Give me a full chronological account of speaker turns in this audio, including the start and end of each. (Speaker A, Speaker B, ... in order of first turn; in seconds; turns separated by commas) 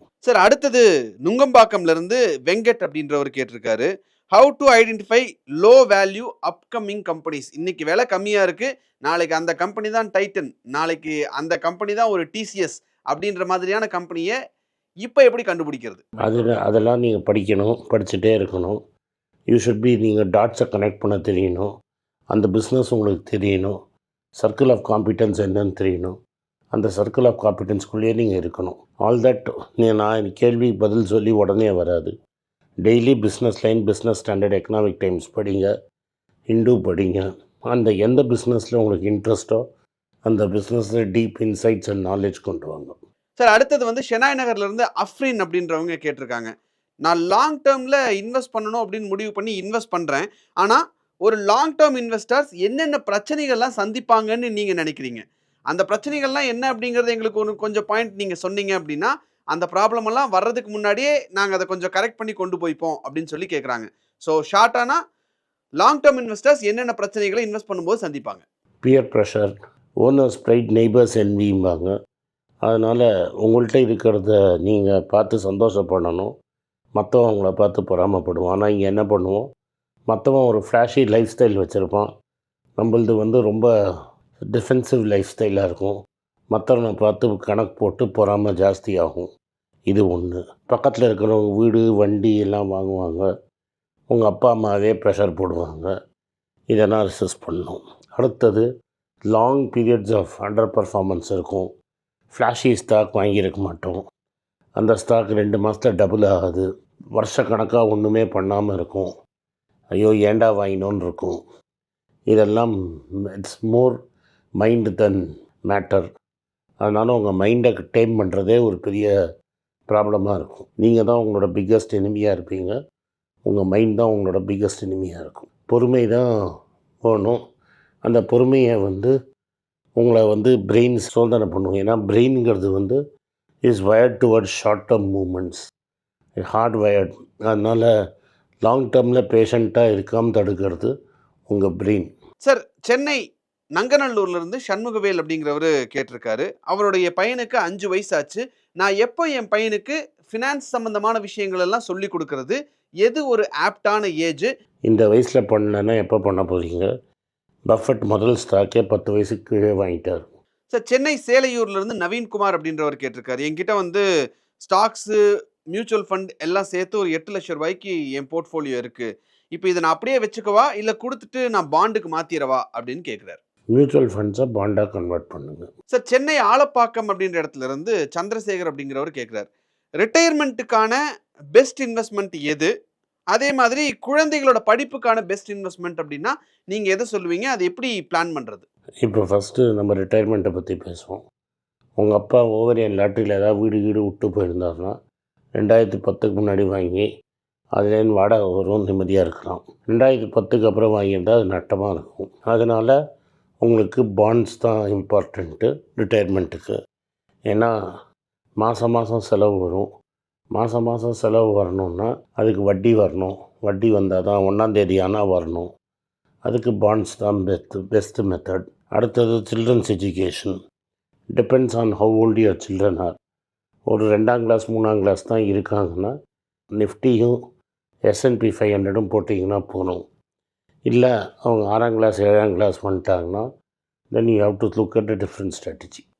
Speaker A: 0.2-14.3, Speaker A: 15.0-16.0, Speaker B: 16.2-18.8, Speaker B: 19.5-21.7, Speaker B: 22.3-23.7, Speaker B: 24.4-26.2, Speaker B: 26.7-32.1, Speaker B: 32.8-35.7, Speaker B: 36.5-39.6, Speaker B: 40.2-43.0, Speaker A: 43.4-46.5, Speaker A: 47.0-65.0, Speaker A: 65.8-68.4, Speaker B: 68.8-71.9, Speaker B: 72.6-76.3, Speaker B: 77.0-79.5, Speaker B: 80.1-82.1, Speaker B: 82.8-83.7, Speaker B: 84.5-86.0, Speaker B: 86.5-89.3, Speaker B: 89.9-93.3, Speaker B: 94.1-95.9, Speaker B: 96.7-98.7, Speaker B: 99.3-101.7, Speaker B: 102.3-104.0, Speaker B: 104.8-106.6, Speaker B: 107.2-109.1, Speaker B: 110.0-111.4, Speaker B: 112.3-112.7, Speaker B: 113.3-114.0, Speaker B: 114.6-116.0, Speaker B: 116.8-119.1, Speaker B: 119.9-122.8, Speaker B: 123.4-126.3, Speaker B: 127.0-127.4, Speaker B: 128.0-129.1, Speaker B: 130.0-133.0, Speaker B: 133.6-135.6, Speaker B: 136.4-137.9, Speaker B: 138.6-140.9, Speaker B: 141.5-142.1, Speaker A: 142.4-143.2, Speaker A: 143.8-154.5, Speaker B: 154.9-156.9, Speaker B: 157.7-160.2, Speaker A: 160.7-164.0, Speaker A: 164.6-165.1, Speaker A: 165.7-173.4, Speaker B: 173.7-175.7, Speaker A: 175.9-179.4, Speaker A: 180.0-181.0, Speaker A: 181.6-182.7, Speaker A: 183.3-188.6, Speaker B: 189.0-191.2, Speaker B: 192.0-194.9, Speaker B: 195.6-197.1, Speaker B: 197.8-202.9, Speaker B: 203.6-206.7, Speaker B: 207.5-207.7, Speaker B: 208.6-209.9, Speaker B: 210.5-215.7, Speaker B: 216.4-220.6, Speaker B: 221.3-223.1, Speaker B: 223.9-226.1, Speaker B: 226.8-227.4, Speaker B: 228.1-230.0, Speaker B: 230.9-233.4, Speaker B: 234.1-236.0